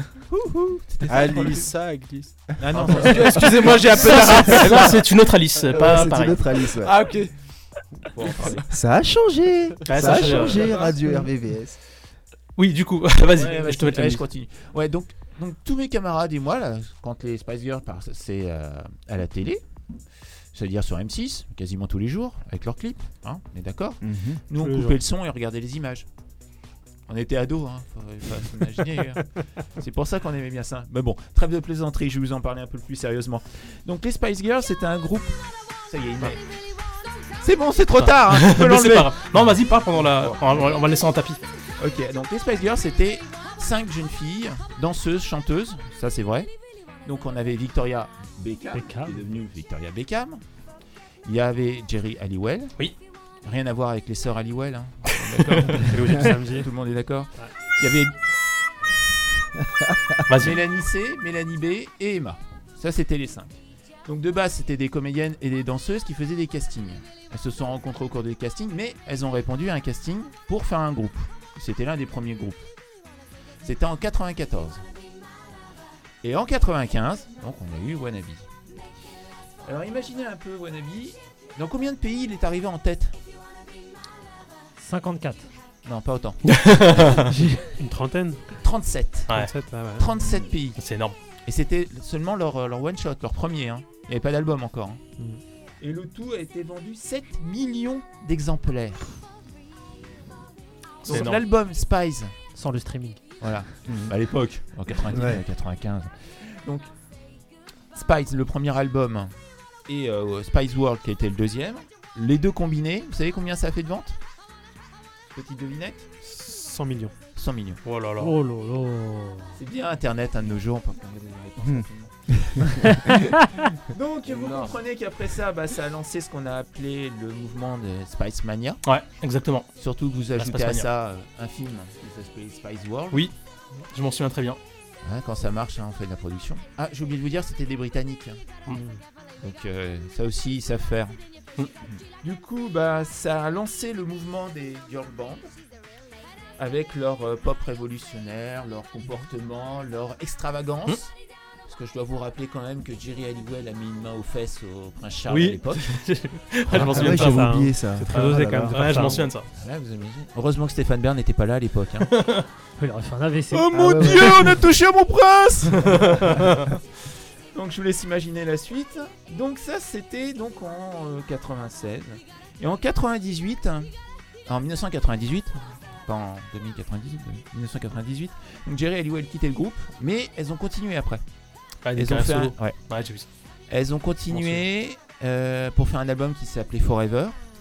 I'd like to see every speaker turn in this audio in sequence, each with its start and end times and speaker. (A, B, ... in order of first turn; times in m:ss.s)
0:00.3-0:01.7 A
0:01.1-0:05.0 B
0:02.6-0:04.3 A
0:03.4-0:06.4 C
0:05.7-0:07.0 D
0:06.8-0:07.3 B
0:08.1-0:08.7 A
0:08.7-0:11.8 D
0:09.9-0:11.0 C
0:10.2-0:10.9 A
0:12.6-0:14.2 C
0:13.3-0:19.6 A
0:20.5-0:26.0 A
0:24.0-0:24.4 D
0:24.6-0:24.9 E
0:27.1-0:29.2 A
0:29.7-0:36.4 A
0:37.4-0:40.7 A
0:38.0-0:41.4 C
0:41.8-0:46.5 A
0:47.0-0:50.4 A
0:48.7-0:49.2 F
0:51.2-0:52.7 A
0:53.4-0:58.1 A
0:55.4-0:55.8 C
0:55.9-0:56.6 F
0:56.0-0:56.6 E
0:59.8-1:00.2 D
1:00.3-1:00.6 C
1:00.3-1:12.7 A
1:13.6-1:14.8 A
1:16.2-1:18.5 A
1:19.6-1:23.2 A
1:24.8-1:25.5 F
1:25.8-1:27.0 A
1:26.4-1:27.3 C
1:27.3-1:27.6 F
1:27.3-1:28.5 E
1:28.6-1:29.4 A
1:29.3-1:30.1 E
1:30.0-1:30.8 A
1:30.8-1:31.2 C
1:31.4-1:35.0 A
1:35.8-1:39.2 A
1:41.0-1:41.4 C
1:41.0-1:42.3 A
1:42.5-1:43.2 F
1:43.4-1:46.9 A
1:43.9-1:44.1 D
1:45.1-1:45.4 D
1:47.9-1:49.3 A
1:49.9-1:54.2 A
1:55.3-1:56.1 A
1:56.2-1:57.1 E
1:57.3-1:57.8 A
1:57.8-1:58.4 C
1:58.2-1:59.5 F
1:59.6-2:03.1 A
2:01.6-2:02.7 D
2:03.9-2:08.8 A
2:04.2-2:04.8 B
2:08.8-2:09.7 C
2:09.8-2:13.3 A
2:10.4-2:10.9 C
2:13.9-2:14.6 C
2:15.0-2:18.6 A
2:19.4-2:21.2 A
2:22.2-2:25.5 A
2:26.6-2:31.1 A
2:31.6-2:36.0 A
2:35.3-2:39.5 C
2:36.7-2:39.2 D
2:36.8-2:39.3 E
2:39.5-2:42.1 A
2:42.1-2:42.4 C
2:42.8-2:43.7 F
2:43.5-2:46.3 A
2:43.7-2:44.6 D
2:46.2-2:46.5 C
2:47.5-2:53.9 A
2:54.5-3:01.2 A
3:01.8-3:03.3 C
3:02.0-3:02.8 A
3:03.7-3:07.4 A
3:04.3-3:04.6 C